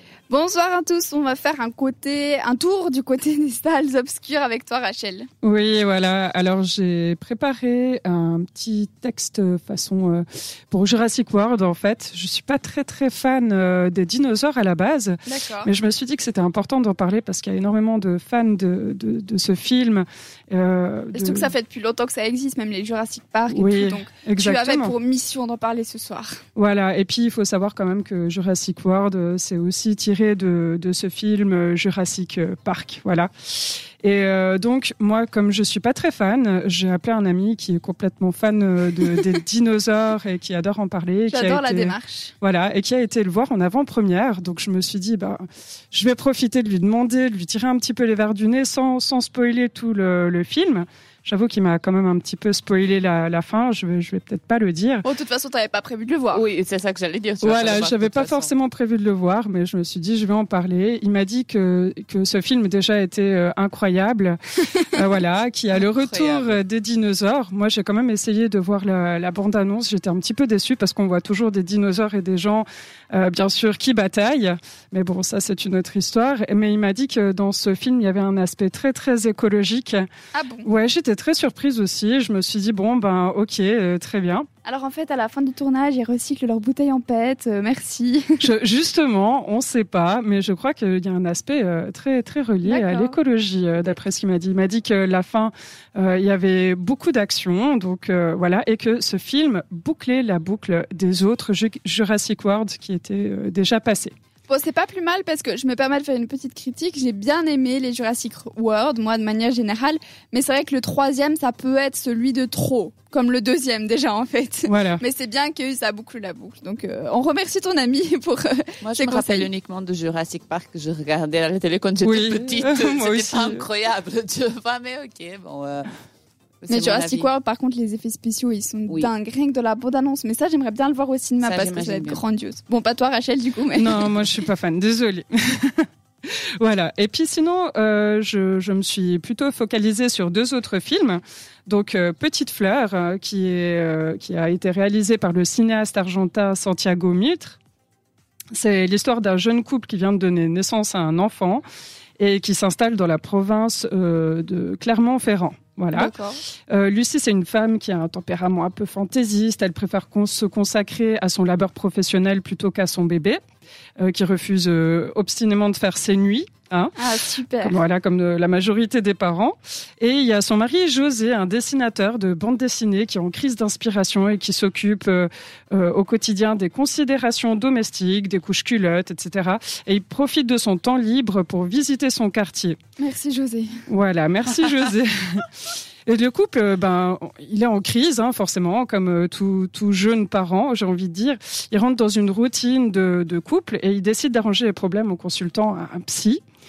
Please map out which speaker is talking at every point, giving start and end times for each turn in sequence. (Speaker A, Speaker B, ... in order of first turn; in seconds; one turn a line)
Speaker A: 0.3-5.3
Speaker B: 5.4-21.5
Speaker A: 15.3-15.7
Speaker A: 21.1-26.4
Speaker B: 23.5-24.9
Speaker B: 26.6-55.0
Speaker A: 41.3-42.3
Speaker A: 55.0-56.4
Speaker C: 56.3-58.5
Speaker B: 57.4-80.0
Speaker C: 65.7-66.6
Speaker A: 80.3-80.7
Speaker B: 80.6-84.5
Speaker A: 84.6-88.4
Speaker B: 88.4-104.1
Speaker A: 92.6-93.2
Speaker A: 104.5-119.5
Speaker B: 114.7-115.0
Speaker C: 118.8-125.9
Speaker B: 122.0-123.7
Speaker C: 126.6-127.3
Speaker A: 126.7-134.1
Speaker C: 131.4-132.2
Speaker B: 133.7-147.6
Speaker B: 148.5-151.6
Speaker B: 152.2-156.1
Speaker A: 155.9-156.4
Speaker B: 156.7-163.4
Speaker B: 164.0-166.9
Speaker A: 167.0-167.8
Speaker B: 167.6-182.8
Speaker A: 183.0-183.8
Speaker B: 183.9-185.5
Speaker B: 186.1-196.4